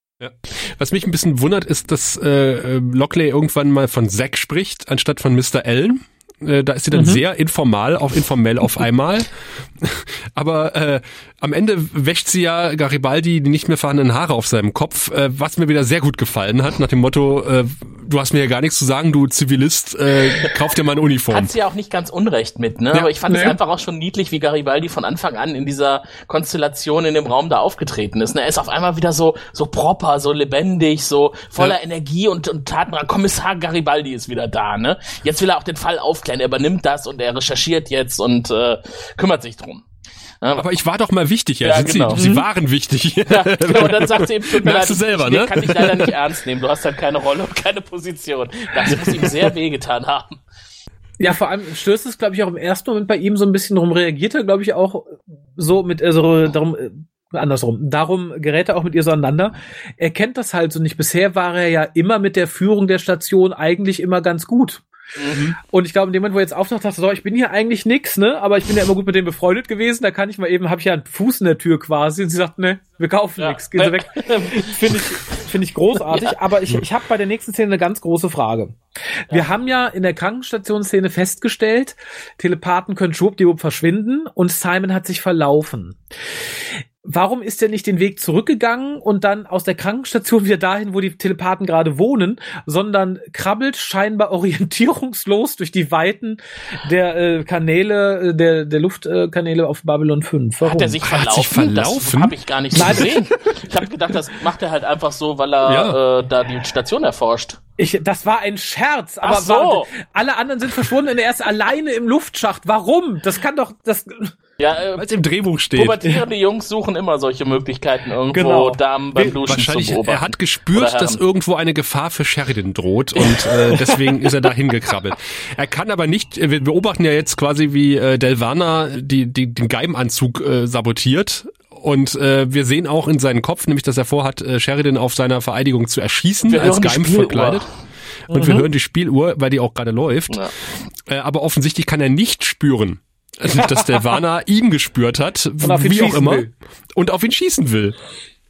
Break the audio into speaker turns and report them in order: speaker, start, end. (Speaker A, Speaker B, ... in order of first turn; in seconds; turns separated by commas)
Speaker A: 0.2-21.5, Speaker B: 6.9-7.2, Speaker C: 21.3-39.8, Speaker B: 23.3-23.6, Speaker A: 40.6-46.1, Speaker C: 41.6-42.3, Speaker C: 43.3-50.4, Speaker A: 48.9-49.4, Speaker B: 51.2-64.8, Speaker B: 65.4-86.0, Speaker C: 73.4-75.1, Speaker C: 76.1-76.4, Speaker B: 87.0-101.0, Speaker C: 100.6-107.6, Speaker A: 101.0-103.1, Speaker B: 102.7-103.3, Speaker A: 105.7-106.0, Speaker B: 107.8-114.3, Speaker C: 109.2-109.9, Speaker C: 114.6-115.0, Speaker A: 115.0-116.0, Speaker C: 115.8-121.2, Speaker B: 118.3-119.3, Speaker A: 119.4-137.7, Speaker B: 123.3-124.3, Speaker C: 136.4-137.7, Speaker A: 138.3-140.4, Speaker B: 138.3-138.7, Speaker A: 141.1-148.0, Speaker B: 143.6-144.2, Speaker B: 145.6-146.5